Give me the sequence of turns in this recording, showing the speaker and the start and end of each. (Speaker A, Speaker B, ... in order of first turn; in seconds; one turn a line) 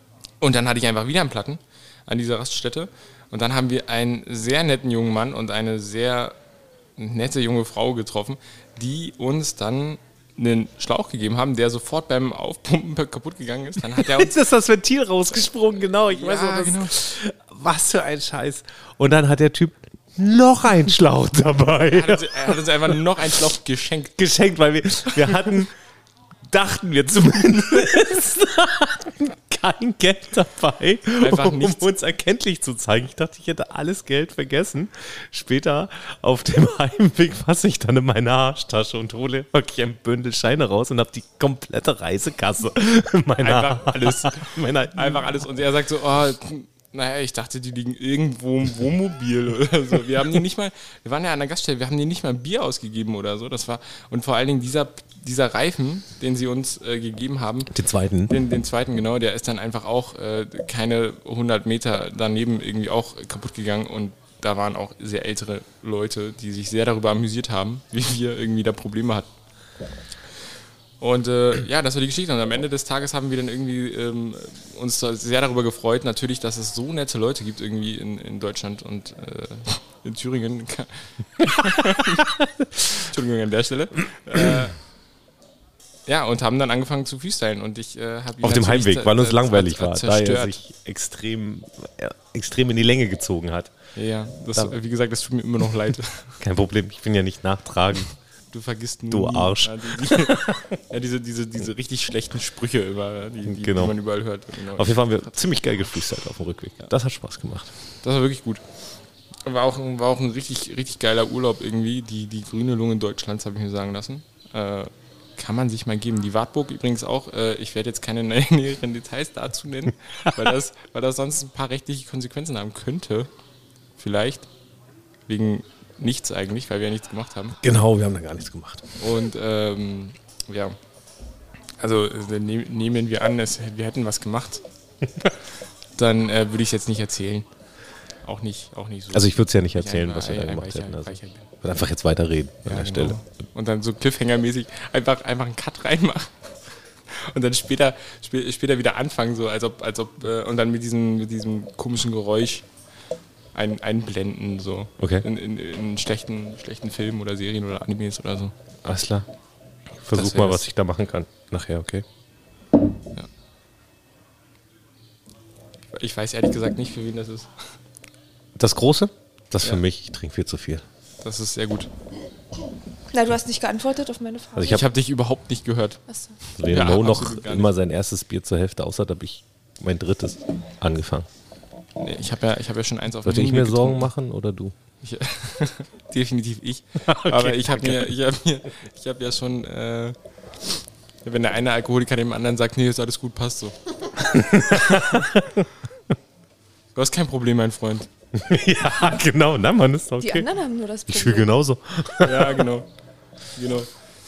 Speaker A: 0.4-6.3
Speaker A: 7.0-14.4
Speaker B: 13.9-23.0
Speaker A: 16.1-17.1
Speaker A: 21.9-24.3
Speaker B: 24.2-25.7
Speaker A: 25.1-25.5
Speaker B: 26.5-45.3
Speaker A: 31.2-31.9
Speaker A: 43.4-57.7
Speaker B: 57.7-58.4
Speaker A: 58.3-69.3
Speaker A: 71.0-84.8
Speaker A: 86.1-90.5
Speaker B: 88.4-93.7
Speaker A: 93.9-96.3
Speaker B: 96.4-98.1
Speaker A: 98.5-105.1
Speaker B: 99.1-100.6
Speaker B: 103.5-104.0
Speaker B: 104.7-107.7
Speaker A: 108.0-108.6
Speaker A: 109.4-123.3
Speaker A: 124.0-124.5
Speaker A: 125.3-127.6
Speaker B: 127.6-129.0
Speaker A: 129.0-130.8
Speaker A: 131.8-134.6
Speaker A: 135.9-137.5
Speaker A: 138.2-141.5
Speaker B: 139.1-143.2
Speaker A: 142.7-146.3
Speaker A: 147.1-152.7
Speaker A: 153.5-158.5
Speaker B: 155.0-155.2
Speaker B: 158.8-159.3
Speaker B: 160.0-162.0
Speaker A: 160.1-160.7
Speaker A: 165.9-167.6
Speaker B: 168.6-170.8
Speaker A: 171.2-171.9
Speaker C: 173.1-174.8
Speaker B: 174.5-174.9
Speaker A: 174.6-176.0
Speaker B: 176.6-181.3
Speaker A: 176.6-177.7
Speaker A: 182.0-184.1
Speaker B: 183.2-184.7
Speaker A: 185.0-190.2
Speaker B: 187.0-188.1
Speaker A: 191.2-193.7
Speaker B: 194.2-195.7
Speaker A: 196.9-198.1
Speaker B: 198.3-200.5
Speaker C: 200.2-201.5
Speaker B: 201.1-202.7
Speaker A: 202.2-202.9
Speaker A: 203.5-203.9